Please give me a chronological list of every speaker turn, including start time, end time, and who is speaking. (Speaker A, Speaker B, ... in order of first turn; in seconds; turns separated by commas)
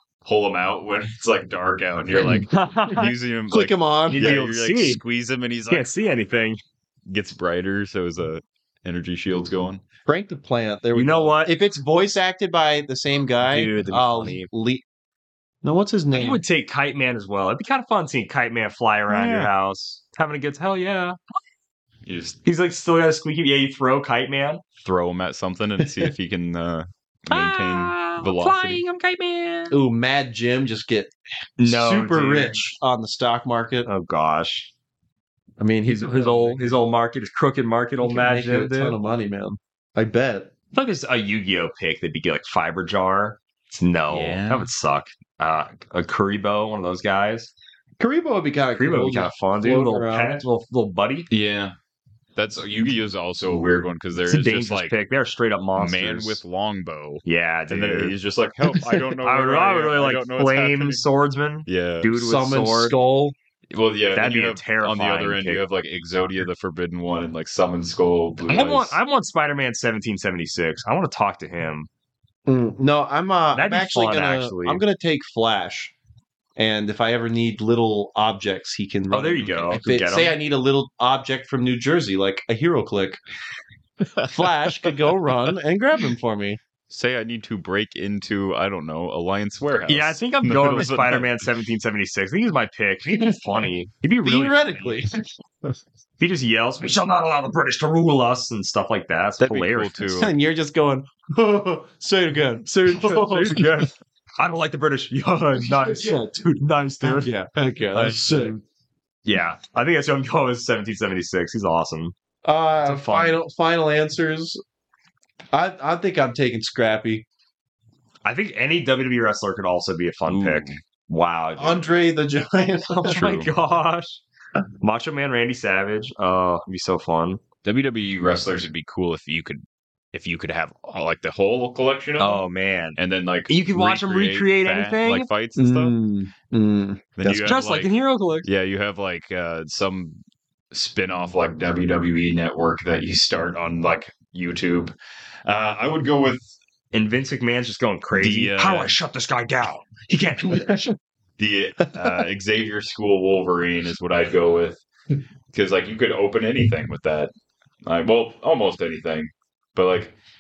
Speaker A: 0.2-5.9, Speaker B: 2.2-3.1, Speaker C: 3.5-4.3, Speaker B: 4.1-5.0, Speaker B: 5.7-6.6, Speaker A: 7.1-9.8, Speaker C: 10.1-14.8, Speaker B: 10.9-11.5, Speaker B: 13.4-14.5, Speaker C: 15.6-16.4, Speaker B: 16.1-21.2, Speaker A: 19.1-19.5, Speaker A: 22.1-22.4, Speaker B: 22.4-24.6, Speaker A: 24.8-28.8, Speaker C: 25.8-26.1, Speaker B: 27.3-29.8, Speaker C: 29.7-33.9, Speaker B: 31.6-32.7, Speaker B: 33.8-34.7, Speaker C: 35.6-36.7, Speaker B: 35.9-39.0, Speaker C: 38.0-40.5, Speaker B: 40.7-47.5, Speaker A: 44.1-44.7, Speaker C: 48.0-50.4, Speaker B: 48.7-51.3, Speaker A: 51.3-51.7, Speaker A: 52.4-54.9, Speaker B: 54.3-56.4, Speaker A: 55.8-61.0, Speaker B: 57.2-58.2, Speaker B: 59.2-63.0, Speaker A: 61.7-62.1, Speaker C: 62.1-63.3, Speaker A: 63.7-69.0, Speaker B: 64.1-65.6, Speaker B: 68.4-71.9, Speaker C: 72.5-75.9, Speaker B: 73.5-74.8, Speaker C: 76.6-83.2, Speaker B: 79.1-80.3, Speaker C: 84.2-86.6, Speaker A: 86.9-91.5, Speaker B: 89.9-94.9, Speaker C: 93.1-93.3, Speaker C: 94.2-95.1, Speaker B: 96.2-100.1, Speaker A: 99.4-100.3, Speaker C: 100.1-103.9, Speaker B: 102.8-107.3, Speaker C: 105.6-106.4, Speaker C: 107.0-108.6, Speaker B: 107.9-108.5, Speaker B: 109.2-112.1, Speaker C: 112.4-114.6, Speaker B: 112.8-113.4, Speaker C: 115.5-117.2, Speaker B: 118.2-121.8, Speaker A: 120.2-120.8, Speaker C: 121.6-123.2, Speaker B: 122.9-124.2, Speaker A: 123.1-123.5, Speaker B: 124.8-127.4, Speaker A: 127.6-132.4, Speaker B: 132.2-133.0, Speaker A: 133.0-135.9, Speaker B: 133.5-135.3, Speaker C: 135.6-137.6, Speaker A: 137.2-137.9, Speaker B: 137.4-138.4, Speaker A: 138.4-140.2, Speaker A: 140.7-144.9, Speaker A: 145.4-146.4, Speaker B: 146.9-150.9, Speaker A: 148.1-149.0, Speaker A: 151.4-154.8, Speaker A: 155.5-157.3, Speaker A: 157.8-160.1